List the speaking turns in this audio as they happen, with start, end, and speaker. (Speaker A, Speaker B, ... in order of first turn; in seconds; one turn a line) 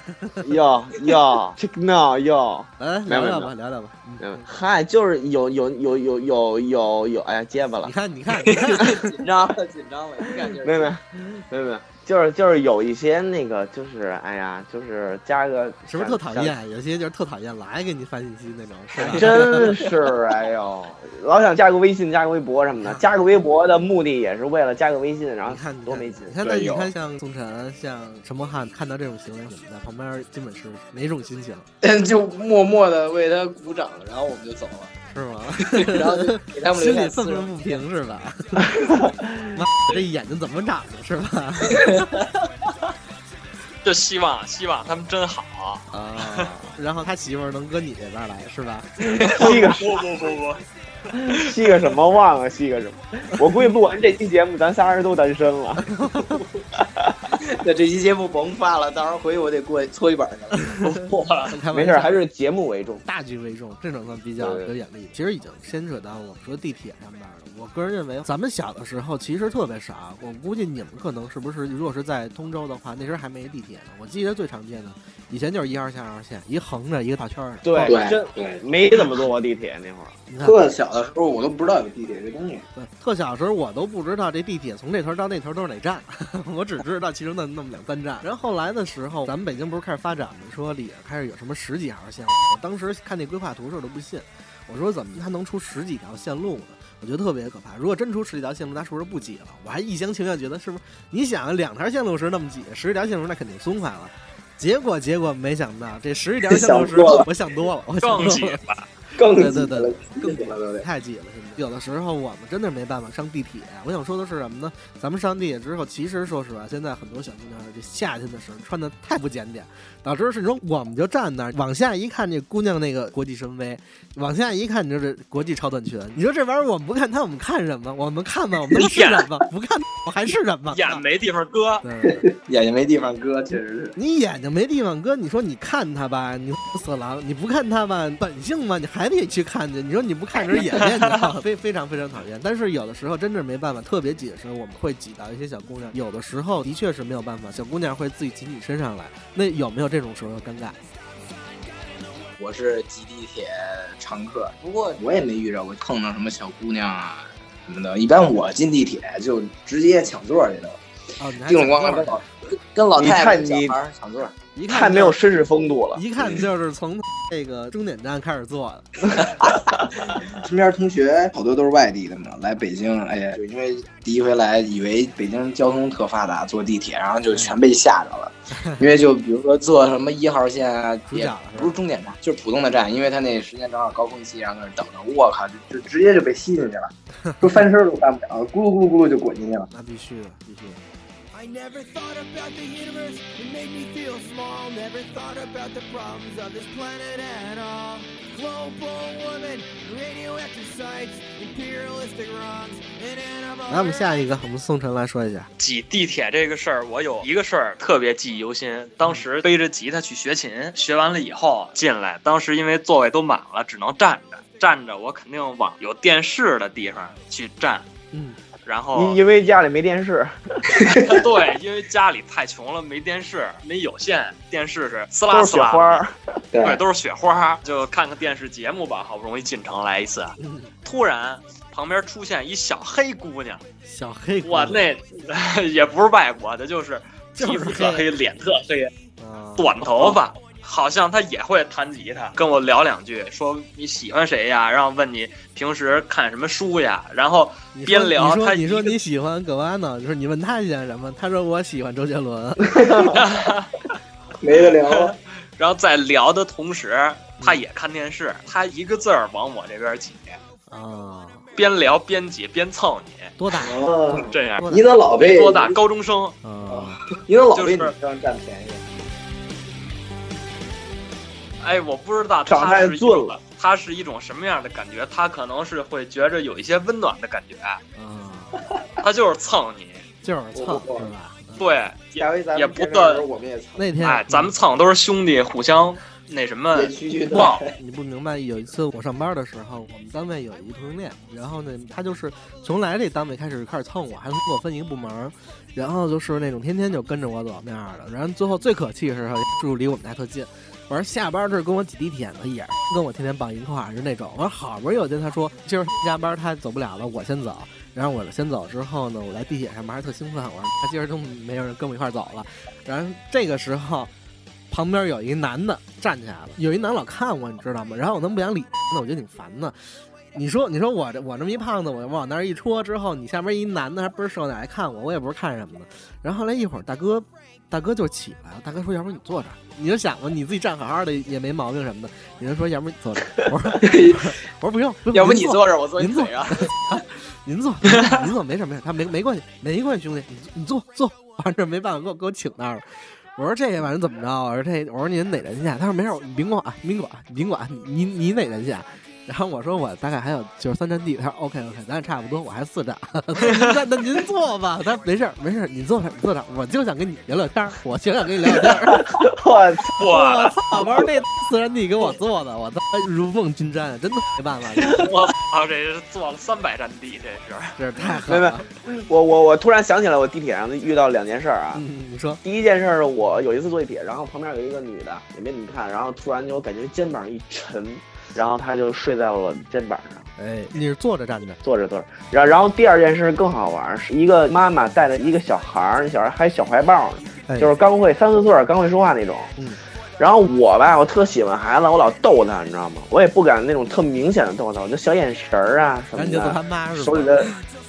Speaker A: 0.2-0.5
Speaker B: 0.4-3.5
Speaker A: 2.8-4.4
Speaker B: 4.2-7.9
Speaker A: 7.8-9.2
Speaker C: 8.4-10.9
Speaker B: 10.4-16.6
Speaker A: 15.8-19.7
Speaker C: 19.0-20.1
Speaker B: 19.0-26.3
Speaker A: 25.4-31.7
Speaker C: 26.4-26.9
Speaker C: 31.8-34.9
Speaker A: 35.1-38.8
Speaker C: 35.6-37.6
Speaker B: 38.8-39.5
Speaker A: 39.5-42.0
Speaker C: 41.7-42.5
Speaker D: 43.8-46.5
Speaker A: 45.9-49.1
Speaker B: 49.0-49.8
Speaker C: 49.3-49.7
Speaker D: 49.3-50.6
Speaker B: 51.2-55.9
Speaker A: 55.9-56.4
Speaker C: 57.4-60.7
Speaker D: 60.8-61.5
Speaker A: 61.5-62.2
Speaker B: 61.7-63.0
Speaker A: 63.0-78.0
Speaker B: 77.6-80.2
Speaker C: 77.8-79.1
Speaker A: 80.3-80.6
Speaker C: 80.4-82.7
Speaker A: 82.8-108.6
Speaker C: 106.5-107.3
Speaker D: 108.0-108.9
Speaker C: 109.2-110.8
Speaker A: 109.3-131.0
Speaker D: 128.7-129.3
Speaker D: 130.7-131.8
Speaker A: 131.8-132.3
Speaker C: 132.1-133.9
Speaker A: 133.9-150.8
Speaker C: 152.4-160.8
Speaker A: 161.2-162.2
Speaker C: 161.4-164.3
Speaker B: 163.0-163.7
Speaker A: 164.6-165.2
Speaker B: 164.7-166.0
Speaker A: 165.9-169.2
Speaker C: 169.1-189.7
Speaker A: 177.3-177.6
Speaker A: 178.5-178.8
Speaker A: 181.1-181.7
Speaker A: 187.2-187.6
Speaker A: 189.7-190.8
Speaker E: 191.3-204.2
Speaker A: 203.7-205.5
Speaker D: 205.6-217.8
Speaker A: 218.1-218.4
Speaker D: 218.7-219.2
Speaker B: 218.9-221.2
Speaker D: 220.9-226.0
Speaker B: 225.3-226.1
Speaker C: 226.5-226.8
Speaker D: 226.6-233.6
Speaker A: 230.4-230.7
Speaker A: 233.9-234.8
Speaker D: 234.4-238.9
Speaker A: 237.4-238.0
Speaker A: 239.2-239.8
Speaker D: 239.6-249.0
Speaker A: 247.7-252.8
Speaker B: 252.8-253.1
Speaker D: 253.1-253.8
Speaker C: 254.4-255.2
Speaker D: 254.5-260.4
Speaker A: 260.7-261.4
Speaker D: 261.5-263.3
Speaker A: 263.4-263.8
Speaker C: 263.6-265.8
Speaker D: 264.1-266.4
Speaker A: 264.6-264.9
Speaker A: 266.4-267.0
Speaker C: 266.7-268.9
Speaker D: 267.5-267.9
Speaker D: 271.6-277.8
Speaker B: 272.5-273.4
Speaker A: 277.9-278.6
Speaker D: 279.0-280.0
Speaker A: 280.2-281.6
Speaker C: 280.5-281.1
Speaker D: 281.6-283.2
Speaker C: 282.1-283.9
Speaker A: 283.8-284.5
Speaker D: 284.0-287.6
Speaker C: 286.7-287.7
Speaker A: 287.3-314.1
Speaker A: 314.7-319.8
Speaker A: 320.3-359.1
Speaker C: 333.8-334.3
Speaker C: 335.1-337.0
Speaker B: 359.0-360.0
Speaker D: 360.0-360.8
Speaker A: 360.0-365.1
Speaker D: 364.8-367.8
Speaker A: 367.8-368.7
Speaker B: 368.2-371.8
Speaker A: 371.7-372.4
Speaker B: 372.4-380.3
Speaker A: 380.4-381.6
Speaker B: 381.6-389.5
Speaker A: 387.5-387.7
Speaker B: 390.2-396.6
Speaker A: 396.1-397.6
Speaker C: 397.1-397.4